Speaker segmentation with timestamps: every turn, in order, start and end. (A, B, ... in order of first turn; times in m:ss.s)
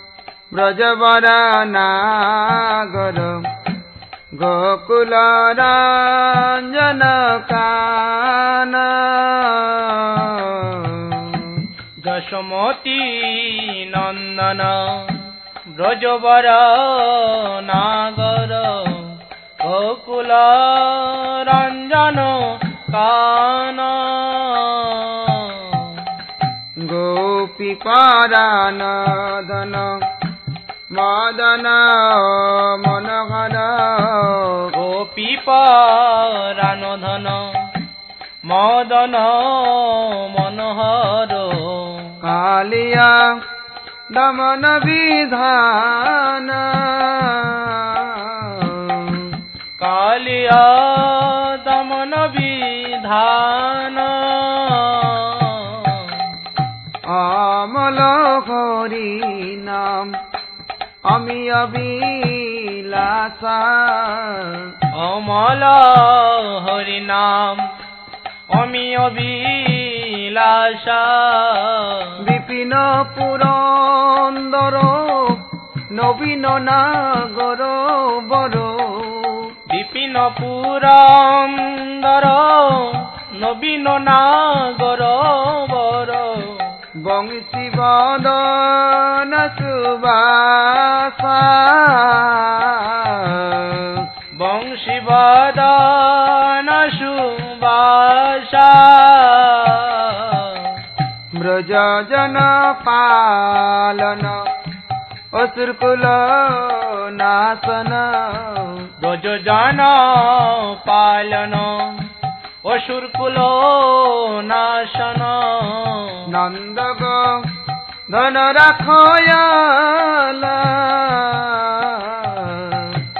0:00.5-0:03.4 A
0:04.3-0:11.7 A
0:12.0-0:26.1 B
0:26.8-0:30.0 A
0:30.9-0:34.7 A
0:34.7-0:37.7 B
0:38.4-0:42.1 B
0:42.2-0:43.3 A
0:44.1-0:49.4 A
0:49.8-0:56.3 B
0:57.1-1:00.1 A
1:01.1-1:04.7 A
1:04.9-1:07.7 B
1:08.5-1:12.1 B
1:12.2-1:19.5 A
1:19.7-1:26.7 B
1:27.0-1:34.0 A
1:34.3-1:40.8 B
1:41.4-1:44.4 A
1:45.3-1:48.8 A
1:49.0-1:52.1 B
1:52.6-1:56.2 B
1:56.3-1:57.4 A
1:58.1-2:03.0 A